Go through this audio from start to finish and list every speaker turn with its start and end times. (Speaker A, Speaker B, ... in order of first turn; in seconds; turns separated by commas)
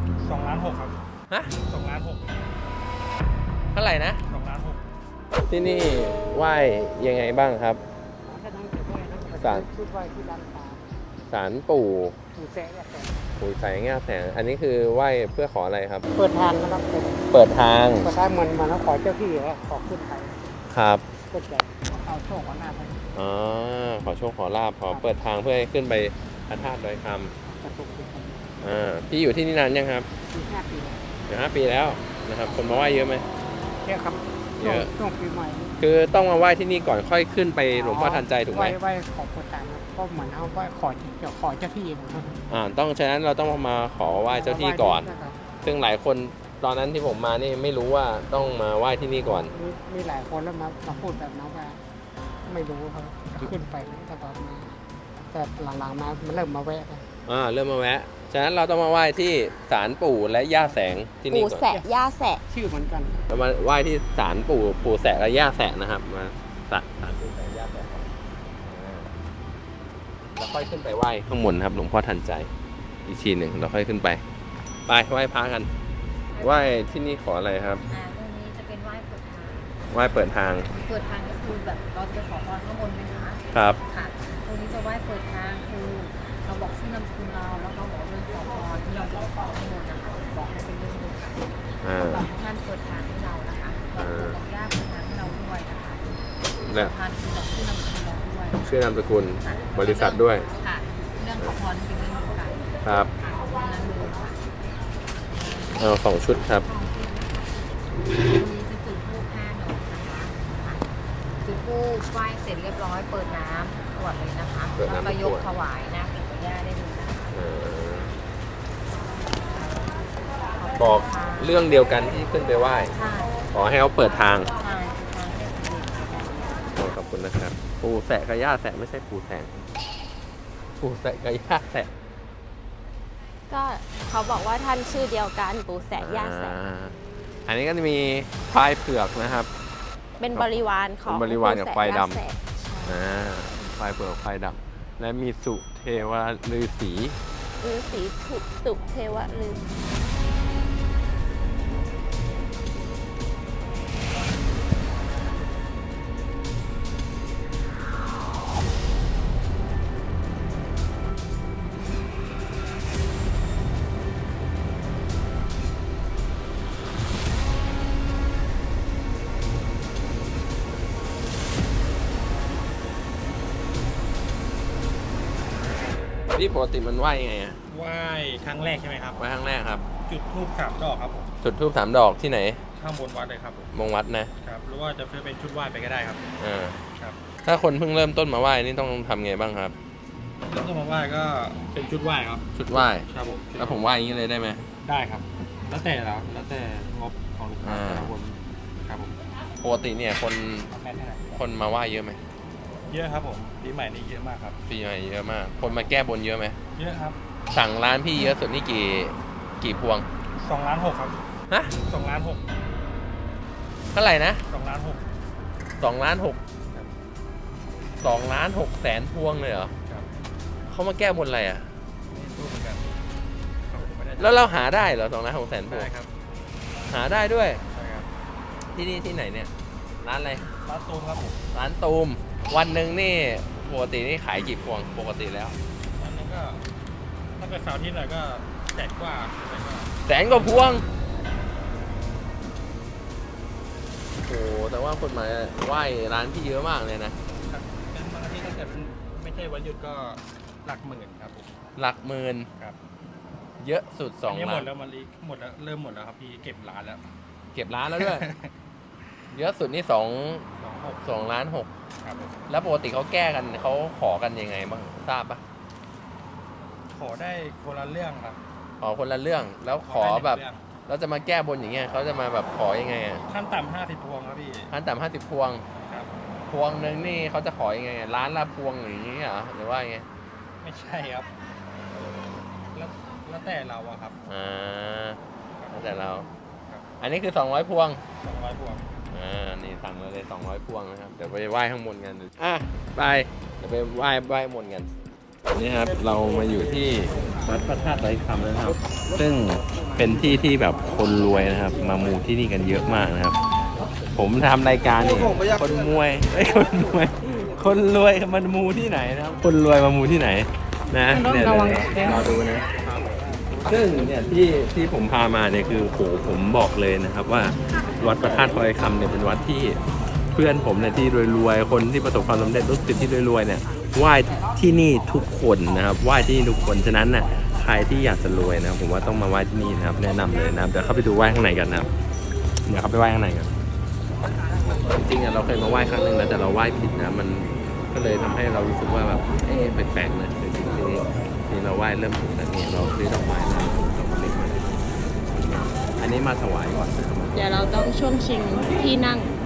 Speaker A: 0.2-1.0, Speaker A: 1.6-2.3, Speaker B: 3.7-4.2, Speaker A: 4.3-4.8, Speaker B: 5.5-7.8, Speaker C: 8.2-10.9, Speaker B: 9.3-9.7, Speaker B: 11.3-12.2, Speaker C: 12.3-13.2, Speaker B: 13.4-16.1, Speaker C: 16.1-17.3, Speaker B: 17.3-18.1, Speaker C: 18.0-20.5, Speaker B: 20.7-21.0, Speaker C: 21.3-23.0, Speaker B: 23.1-27.3, Speaker C: 27.4-28.5, Speaker B: 28.6-30.1, Speaker C: 30.3-31.1, Speaker B: 31.3-33.2, Speaker C: 33.8-35.8, Speaker B: 34.6-34.9, Speaker B: 35.8-38.8, Speaker C: 37.7-42.4, Speaker B: 42.5-45.1, Speaker C: 44.3-45.4, Speaker B: 45.6-49.5, Speaker C: 49.2-51.8, Speaker C: 52.4-57.0, Speaker B: 57.2-61.6, Speaker D: 61.3-62.4, Speaker C: 62.5-63.2, Speaker B: 63.3-68.1, Speaker B: 68.6-69.1, Speaker B: 70.3-72.5, Speaker B: 73.0-74.2, Speaker B: 74.9-75.7, Speaker E: 76.3-76.8, Speaker B: 76.4-77.8, Speaker E: 77.9-79.8, Speaker B: 79.9-80.7, Speaker E: 80.7-98.7, Speaker B: 83.5-83.8, Speaker B: 91.8-92.3, Speaker B: 93.9-94.4, Speaker B: 96.6-96.9, Speaker B: 98.6-100.5, Speaker E: 99.2-104.4, Speaker B: 102.8-103.1, Speaker E: 105.3-105.8, Speaker B: 105.8-106.7, Speaker E: 106.6-117.4, Speaker B: 114.8-115.5, Speaker B: 117.3-118.1, Speaker E: 119.4-121.5, Speaker B: 120.8-122.9, Speaker E: 122.9-123.4, Speaker B: 123.5-124.5, Speaker E: 124.6-126.7, Speaker B: 126.7-129.6, Speaker B: 130.8-131.9, Speaker D: 133.5-136.6, Speaker B: 135.9-139.5, Speaker D: 140.2-143.0, Speaker B: 140.3-142.2, Speaker B: 142.8-147.2, Speaker D: 147.6-149.7, Speaker B: 176.3-177.6, Speaker A: 177.7-179.2, Speaker B: 179.2-179.9, Speaker A: 180.0-181.3, Speaker B: 181.4-182.6, Speaker A: 182.7-183.7, Speaker B: 183.7-184.3, Speaker A: 184.4-186.2, Speaker B: 186.4-186.8, Speaker B: 187.4-189.8, Speaker A: 190.5-192.4, Speaker B: 192.5-194.7, Speaker A: 193.0-193.8, Speaker A: 194.8-199.2, Speaker B: 197.6-198.1, Speaker B: 199.6-200.7, Speaker A: 200.7-201.4, Speaker B: 201.3-202.2, Speaker A: 202.9-204.6, Speaker B: 204.7-206.6, Speaker A: 206.7-207.2, Speaker B: 207.5-210.1, Speaker A: 210.4-211.2, Speaker A: 211.8-212.4, Speaker B: 213.9-214.4, Speaker A: 214.5-215.0, Speaker B: 215.8-216.4, Speaker B: 218.0-219.7, Speaker B: 220.7-221.7, Speaker A: 222.1-223.0, Speaker A: 223.6-224.4, Speaker B: 224.2-225.9, Speaker A: 225.7-226.1, Speaker B: 226.9-227.6, Speaker A: 227.7-228.1, Speaker B: 228.7-230.5, Speaker A: 230.6-231.4, Speaker B: 231.5-235.6, Speaker A: 235.9-236.7, Speaker A: 237.4-239.9, Speaker B: 240.1-240.8, Speaker B: 244.2-247.2, Speaker A: 247.3-251.5, Speaker B: 251.8-252.5, Speaker B: 253.6-254.7, Speaker A: 254.3-257.1, Speaker B: 257.5-258.2, Speaker A: 257.9-258.5, Speaker B: 259.3-260.5, Speaker A: 260.6-261.1, Speaker B: 261.0-261.7, Speaker A: 262.0-262.4, Speaker B: 262.5-265.4, Speaker A: 266.9-268.4, Speaker B: 268.8-273.2, Speaker A: 269.7-270.6, Speaker A: 273.3-274.7, Speaker B: 274.7-275.6, Speaker A: 275.8-276.1, Speaker B: 276.5-280.1, Speaker A: 280.6-281.3, Speaker A: 282.7-284.2, Speaker B: 284.3-285.2, Speaker A: 285.6-286.9, Speaker B: 285.7-286.3, Speaker B: 287.0-288.0, Speaker A: 288.2-288.9, Speaker B: 289.1-294.9, Speaker B: 295.5-303.4, Speaker B: 304.1-312.7, Speaker C: 311.1-312.3, Speaker B: 313.6-319.8, Speaker B: 320.3-331.9, Speaker B: 332.6-333.5, Speaker B: 334.9-344.7, Speaker B: 345.4-347.4, Speaker D: 347.3-349.3